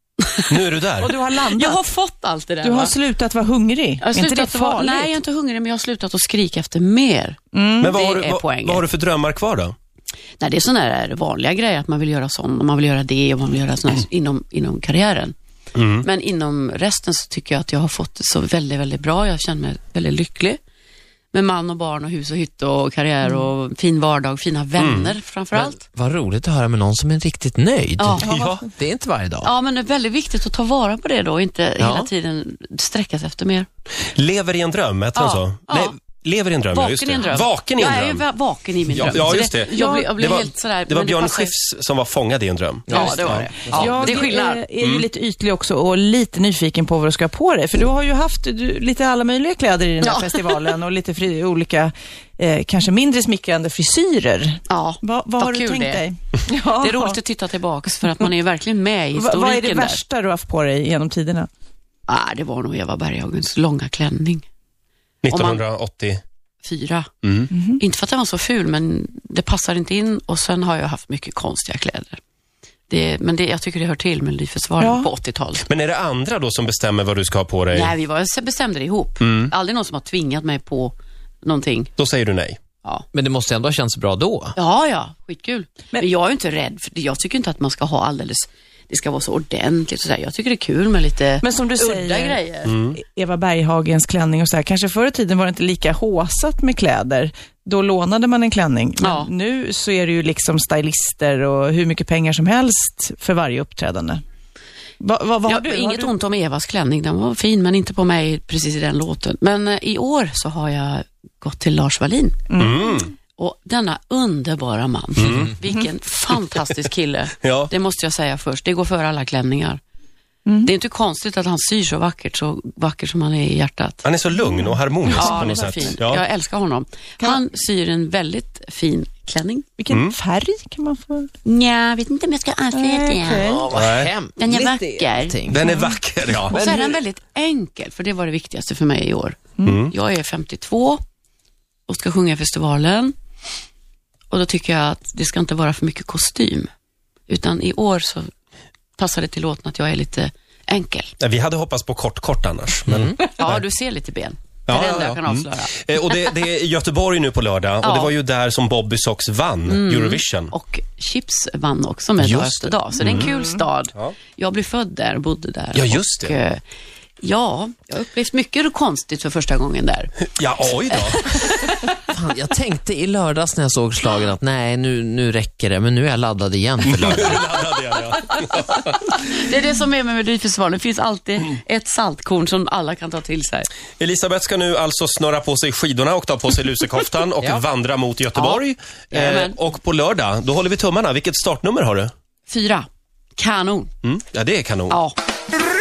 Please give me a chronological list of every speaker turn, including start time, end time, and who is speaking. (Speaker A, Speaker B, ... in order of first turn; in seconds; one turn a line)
Speaker A: 0.2-0.5
Speaker B: 0.5-1.1
Speaker C: 1.0-1.8
Speaker A: 1.4-2.9
Speaker C: 2.6-5.2
Speaker A: 4.0-8.9
Speaker C: 7.5-8.0
Speaker B: 7.8-9.7
Speaker A: 10.4-15.3
Speaker B: 15.7-16.1
Speaker A: 16.0-20.6
Speaker A: 21.3-25.8
Speaker B: 24.8-25.1
Speaker D: 25.5-28.2
Speaker A: 28.0-28.3
Speaker B: 28.2-28.7
Speaker D: 28.8-29.5
Speaker A: 29.4-33.7
Speaker D: 31.8-32.1
Speaker B: 34.1-38.2
Speaker A: 35.1-35.9
Speaker A: 36.7-41.5
Speaker B: 38.9-44.1
Speaker C: 39.1-40.1
Speaker D: 42.9-43.4
Speaker A: 42.9-44.6
Speaker C: 43.2-57.2
Speaker B: 44.8-45.0
Speaker A: 50.0-50.8
Speaker A: 54.7-56.0
Speaker A: 56.7-60.0
Speaker C: 59.1-61.5
Speaker A: 62.1-64.4
Speaker B: 65.2-66.2
Speaker A: 65.3-65.6
Speaker A: 66.6-67.1
Speaker B: 67.2-67.5
Speaker C: 67.5-67.8
Speaker A: 67.8-72.2
Speaker A: 72.9-75.6
Speaker C: 74.8-75.1
Speaker B: 75.6-77.9
Speaker A: 77.7-81.9
Speaker B: 79.2-79.5
Speaker B: 82.0-82.6
Speaker D: 83.1-84.5
Speaker A: 84.5-92.7
Speaker C: 91.4-92.4
Speaker B: 92.7-93.0
Speaker C: 92.9-104.2
Speaker A: 99.0-99.3
Speaker C: 105.0-106.1
Speaker A: 105.5-112.4
Speaker C: 112.5-112.8
Speaker B: 112.6-113.1
Speaker A: 113.4-119.8
Speaker B: 115.2-115.5
Speaker B: 117.4-117.7
Speaker C: 120.5-120.7
Speaker A: 120.6-124.0
Speaker B: 124.0-126.2
Speaker A: 125.1-129.7
Speaker C: 125.1-125.6
Speaker C: 129.8-131.3
Speaker B: 129.9-130.2
Speaker A: 131.4-133.5
Speaker C: 132.7-133.7
Speaker D: 133.4-135.6
Speaker B: 133.7-134.1
Speaker A: 134.4-135.3
Speaker B: 135.5-136.6
Speaker C: 135.7-135.9
Speaker A: 136.5-141.0
Speaker D: 136.5-137.0
Speaker B: 139.6-139.9
Speaker A: 141.9-143.1
Speaker A: 144.3-146.7
Speaker A: 147.3-148.2
Speaker A: 149.0-151.1
Speaker B: 151.2-153.6
Speaker D: 152.9-153.2
Speaker A: 153.3-155.8
Speaker B: 154.7-160.5
Speaker A: 157.8-158.1
Speaker A: 159.7-166.6
Speaker B: 162.2-163.3
Speaker C: 163.2-163.5
Speaker B: 165.7-166.3
Speaker A: 167.2-170.1
Speaker B: 170.3-171.5
Speaker A: 170.9-171.9
Speaker D: 172.1-177.5
Speaker B: 176.8-178.9
Speaker A: 179.1-183.7
Speaker B: 184.0-192.1
Speaker A: 188.3-189.6
Speaker A: 192.5-193.9
Speaker B: 194.0-195.0
Speaker A: 194.9-195.1